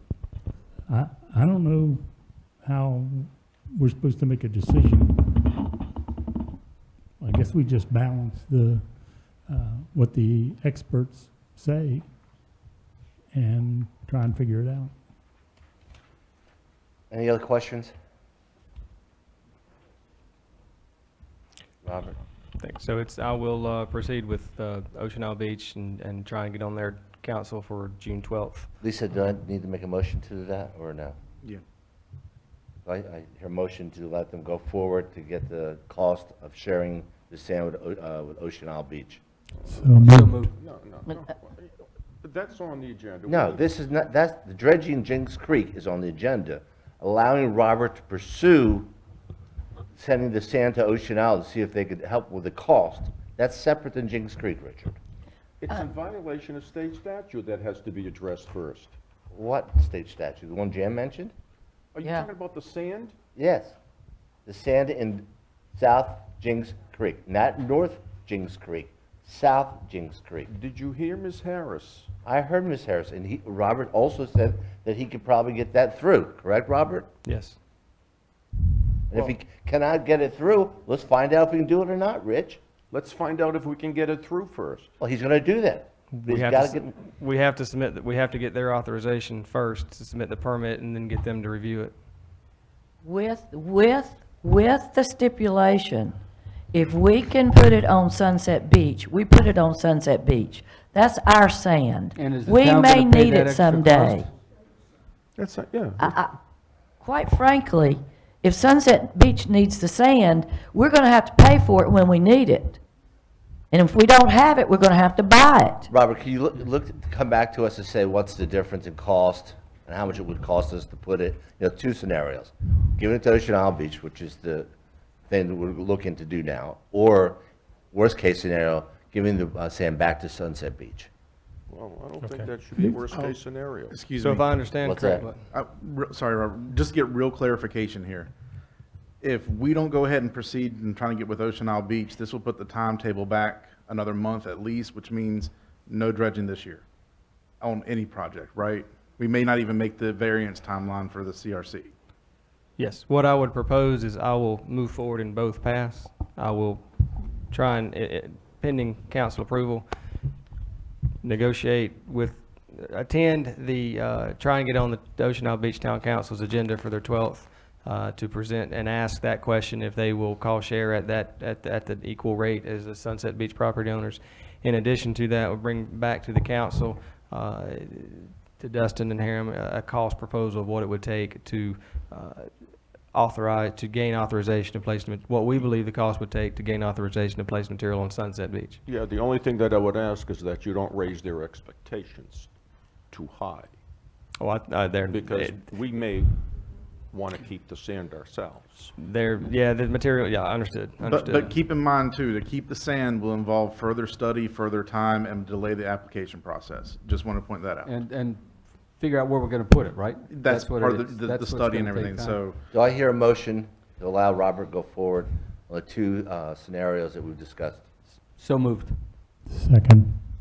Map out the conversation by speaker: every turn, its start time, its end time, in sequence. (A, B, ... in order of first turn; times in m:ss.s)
0:00.9-0:05.3 A
0:07.2-0:12.1 A
0:13.3-0:14.9 A
0:17.1-0:17.9 B
0:21.8-0:22.2 B
0:22.6-0:28.7 C
0:28.8-0:31.2 B
0:32.8-0:39.2 B
0:39.6-0:43.7 D
0:39.7-0:40.4 A
0:40.0-0:40.5 E
0:43.2-0:48.9 B
0:50.0-0:55.0 B
0:55.6-0:58.9 D
0:59.3-1:01.3 B
1:01.9-1:03.1 D
1:03.4-1:03.8 B
1:04.4-1:10.5 B
1:10.5-1:12.1 D
1:12.2-1:17.1 B
1:17.2-1:17.6 C
1:19.1-1:22.6 B
1:22.9-1:24.9 D
1:25.0-1:26.9 B
1:26.1-1:31.9 C
1:33.0-1:36.2 F
1:36.7-1:44.3 F
1:42.2-1:44.3 E
1:45.4-1:46.2 D
1:46.0-1:46.3 F
1:47.0-1:52.8 F
1:53.7-1:55.9 F
1:55.9-2:04.7 B
2:05.3-2:07.4 B
2:07.9-2:11.1 B
2:11.7-2:14.1 D
2:13.1-2:13.4 G
2:13.9-2:14.4 G
2:14.2-2:15.4 C
2:14.8-2:15.2 B
2:15.5-2:18.3 G
2:19.2-2:26.8 G
2:27.6-2:31.9 G
2:32.8-2:39.9 C
2:41.2-3:02.5 C
3:03.0-3:08.8 C
3:08.8-3:12.5 D
3:13.1-3:13.7 D
3:14.4-3:15.6 C
3:15.1-3:16.4 D
3:17.1-3:18.9 D
3:19.0-3:21.6 C
3:21.0-3:27.9 G
3:27.8-3:32.5 E
3:30.3-3:32.6 G
3:32.7-3:37.8 B
3:38.1-3:39.0 E
3:39.5-3:40.2 A